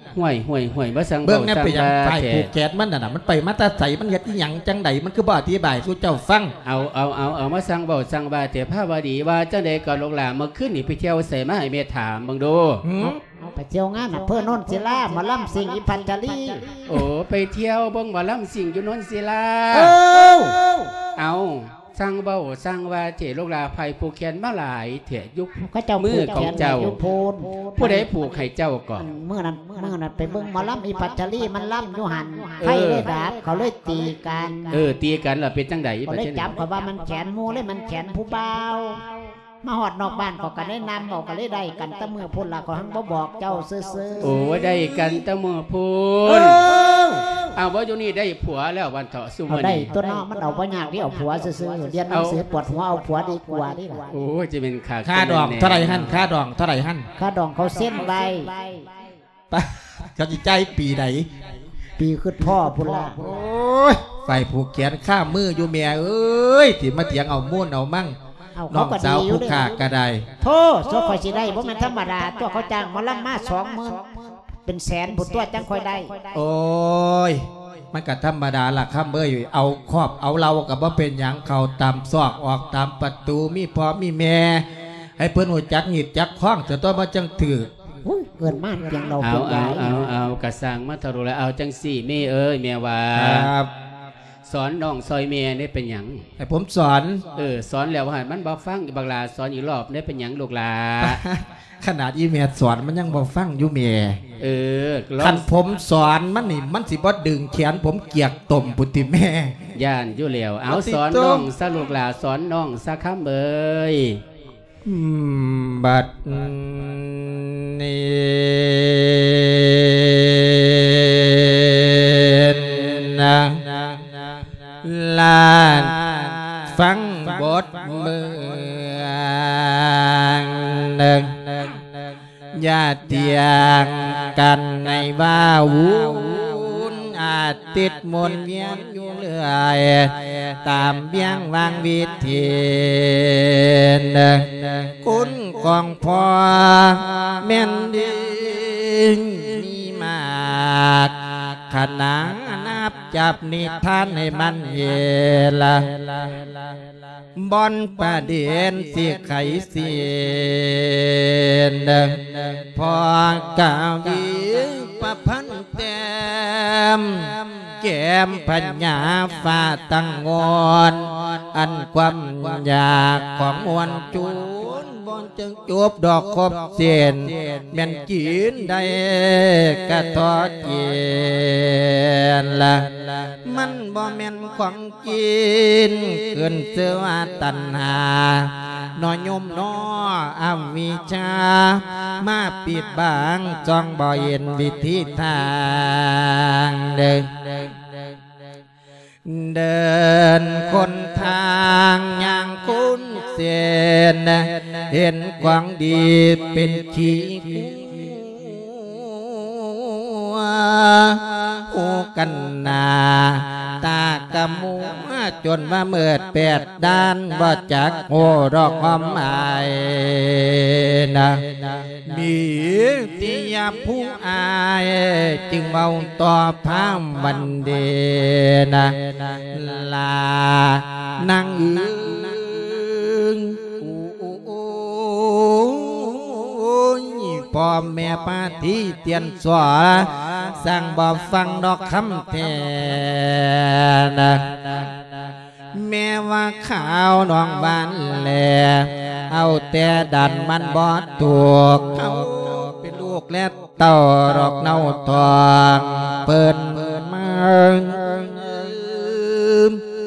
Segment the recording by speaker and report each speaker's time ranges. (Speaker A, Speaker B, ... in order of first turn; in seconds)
Speaker A: 0.1-2.5, 6.6-12.8, 16.9-20.0, 21.2-27.0, 27.8-29.1, 32.6-33.1, 34.7-36.5, 44.2-46.7, 47.5-49.9, 52.1-52.4, 54.1-56.2, 89.2-93.5, 94.5-96.3, 97.3-101.2, 104.4-105.5, 109.8-114.2
Speaker B: 1.2-6.5, 12.8-13.2, 55.0-57.1, 59.5-61.3, 63.2-68.2, 68.7-70.3, 76.3-84.7, 85.2-87.7, 93.1-93.7, 96.4-97.2, 101.0-104.2, 105.2-109.6, 110.7-111.5, 114.8-124.0, 124.8-131.8, 132.5-156.3, 157.4-197.8, 199.2-244.9, 245.7-259.8
Speaker C: 13.0-16.8, 19.7-20.9, 25.7-28.1, 29.0-34.8, 36.1-39.0, 39.6-44.8, 46.3-47.3, 49.5-54.1, 57.2-58.6, 62.0-63.3, 68.6-69.7, 70.4-76.3, 88.0-90.1